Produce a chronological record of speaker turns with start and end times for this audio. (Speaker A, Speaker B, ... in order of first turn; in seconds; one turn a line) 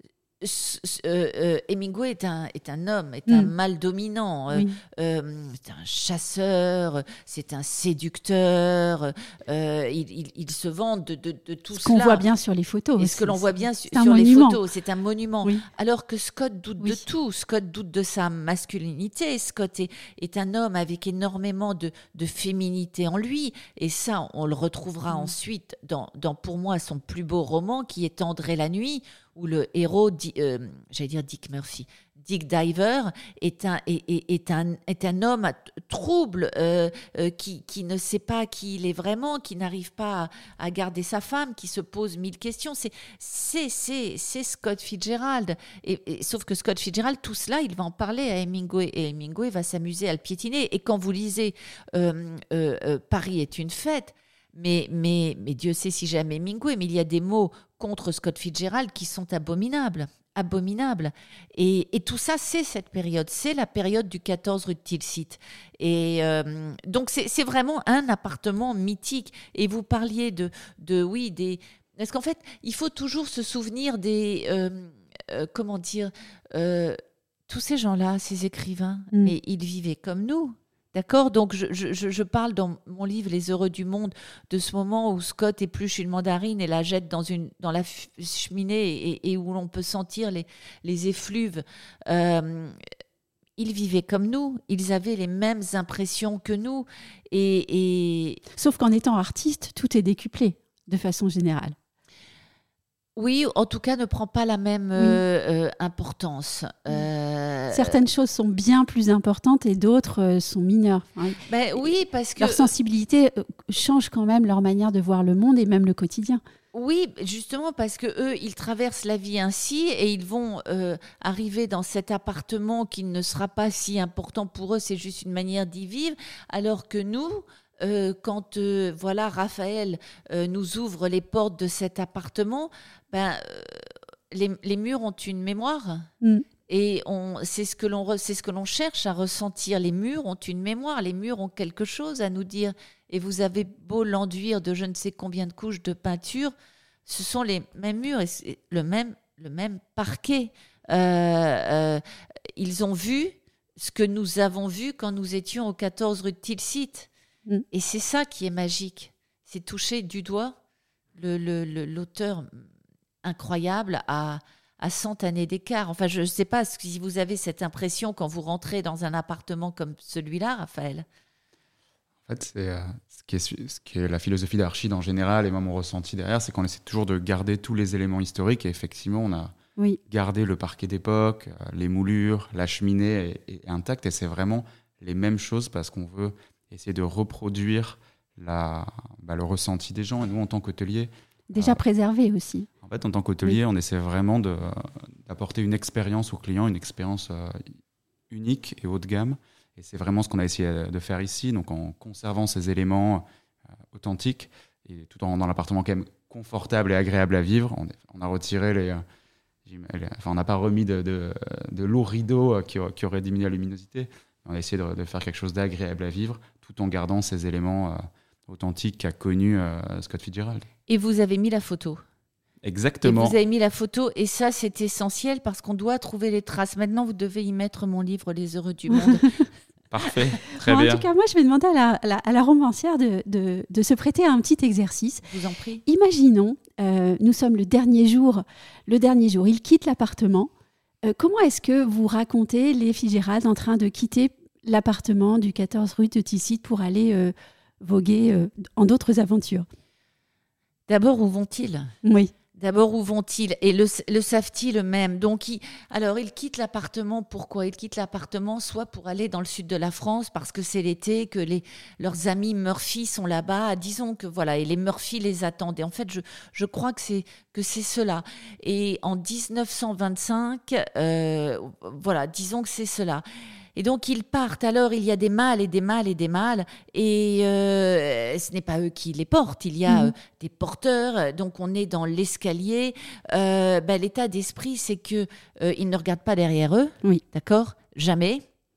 Speaker A: 0.4-12.2
Speaker B: 4.5-4.8
Speaker B: 11.7-14.6
Speaker A: 13.0-92.8
Speaker B: 16.8-17.1
Speaker A: 93.6-98.4
Speaker B: 98.6-101.8
Speaker A: 103.2-108.0
Speaker B: 107.7-111.4
Speaker A: 111.5-112.7
Speaker B: 112.4-116.4
Speaker A: 116.7-136.1
Speaker A: 136.7-146.5
Speaker A: 147.1-152.0
Speaker A: 152.6-157.1
Speaker A: 157.7-160.6
Speaker A: 161.2-162.5
Speaker A: 163.2-171.1
Speaker C: 172.3-179.5
Speaker C: 180.1-191.8
Speaker B: 191.5-192.7
Speaker C: 192.8-197.7
Speaker C: 198.3-203.2
Speaker C: 203.9-209.0
Speaker C: 209.7-220.7
Speaker A: 220.9-222.0
Speaker C: 222.6-223.4
Speaker A: 223.0-229.4
Speaker B: 228.9-229.4
Speaker C: 229.9-231.1
Speaker B: 230.7-235.2
Speaker A: 235.3-235.8
Speaker B: 235.9-240.5
Speaker B: 241.1-249.7
Speaker A: 250.9-251.9
Speaker B: 252.0-252.3
Speaker A: 252.6-273.2
Speaker A: 273.8-288.4
Speaker B: 279.9-280.1